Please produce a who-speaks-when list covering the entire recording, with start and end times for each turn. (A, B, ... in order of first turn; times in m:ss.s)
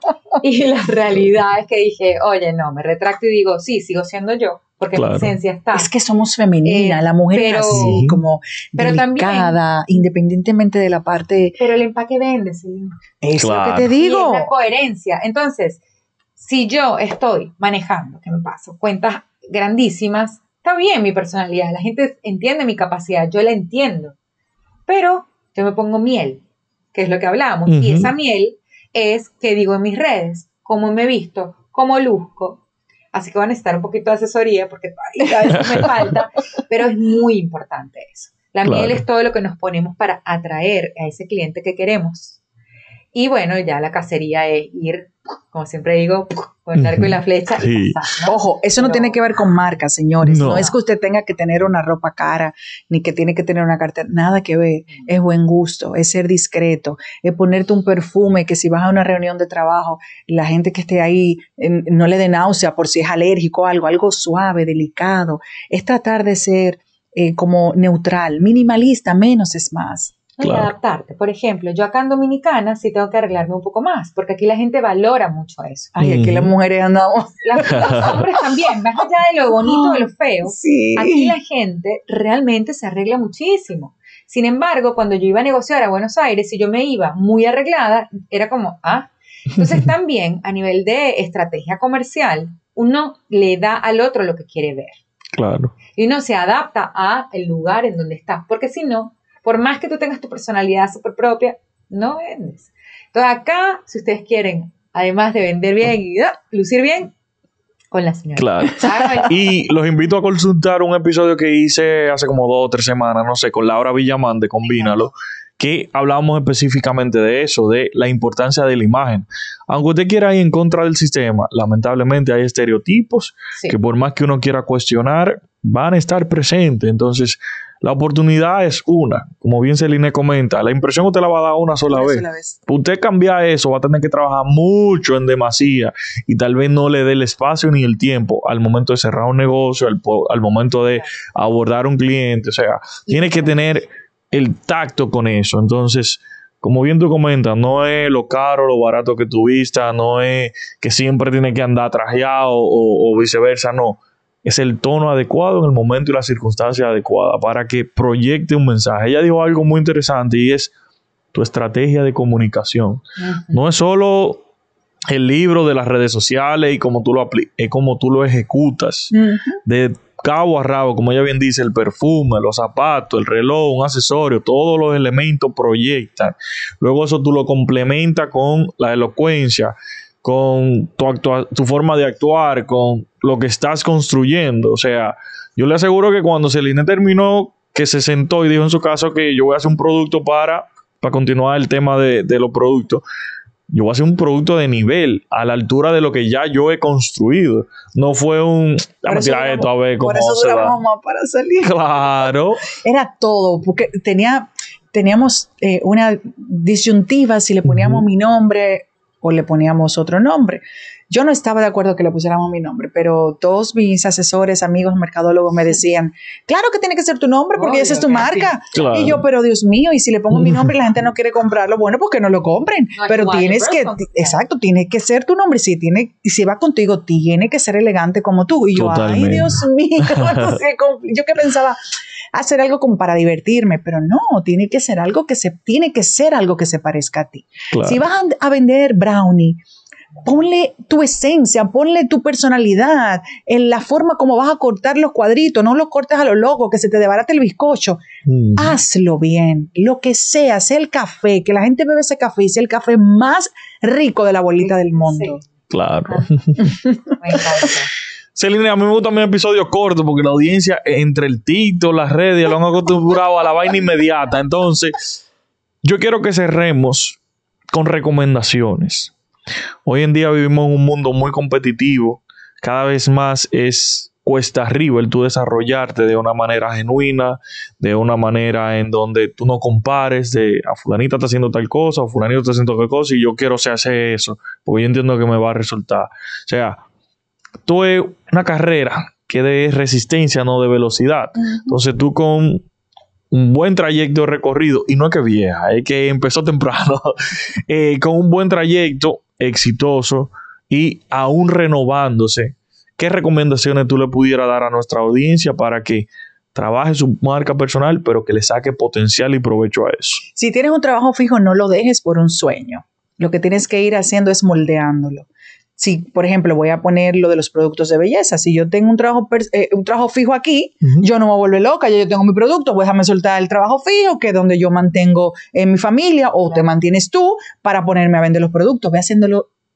0:00.4-0:05.9 A
0:04.9-0:05.3 B
0:05.7-0:11.6 C
0:06.6-0:08.0 A
0:07.7-0:08.2 B
0:08.8-0:09.6 A
0:11.6-0:13.0 A
0:13.2-0:14.5 C
0:13.4-0:13.9 B
0:14.0-0:15.8 A
0:16.4-0:24.2 A
0:24.9-0:26.4 A
0:26.9-0:32.6 A
0:27.7-0:28.1 B
0:33.1-0:42.4 A
0:38.6-0:39.0 B
0:43.1-0:49.2 A
0:46.8-0:48.0 B
0:48.3-1:10.2 C
0:50.2-0:50.7 B
0:50.4-0:50.8 A
1:10.4-1:15.9 A
1:10.4-1:10.7 B
1:16.0-1:18.2 C
1:16.0-1:16.5 B
1:17.4-1:35.0 A
1:17.7-1:18.2 B
1:19.6-1:21.4 C
1:35.4-1:35.7 B
1:35.9-1:47.1 A
1:47.9-1:49.4 A
1:48.4-2:40.7 B
1:54.6-1:55.1 A
2:11.9-2:12.6 C
2:23.1-2:23.8 A
2:41.3-2:44.4 B
2:43.2-2:43.6 A
2:45.1-2:49.2 B
2:49.1-2:49.6 C
2:49.7-3:13.0 B
3:13.7-3:20.8 B
3:19.1-3:21.8 C
3:21.6-3:22.7 B
3:22.7-3:51.8 C
3:27.7-3:28.0 B
3:37.6-3:38.5 A
3:38.7-3:39.2 B
3:40.4-3:40.7 B
3:43.0-3:44.4 A
3:48.8-3:50.6 B
3:52.3-3:59.6 C
3:57.7-3:58.0 B
4:00.2-4:08.0 C
4:08.3-4:08.8 B
4:08.6-4:15.4 C
4:14.6-4:15.5 A
4:15.7-4:16.7 B
4:16.1-4:17.9 A
4:16.7-4:17.1 C
4:18.4-4:25.2 B
4:25.8-4:27.2 B
4:27.7-4:29.1 B
4:29.9-4:46.8 B
4:47.6-4:52.6 B
4:53.3-5:10.2 B
5:10.4-5:29.5 C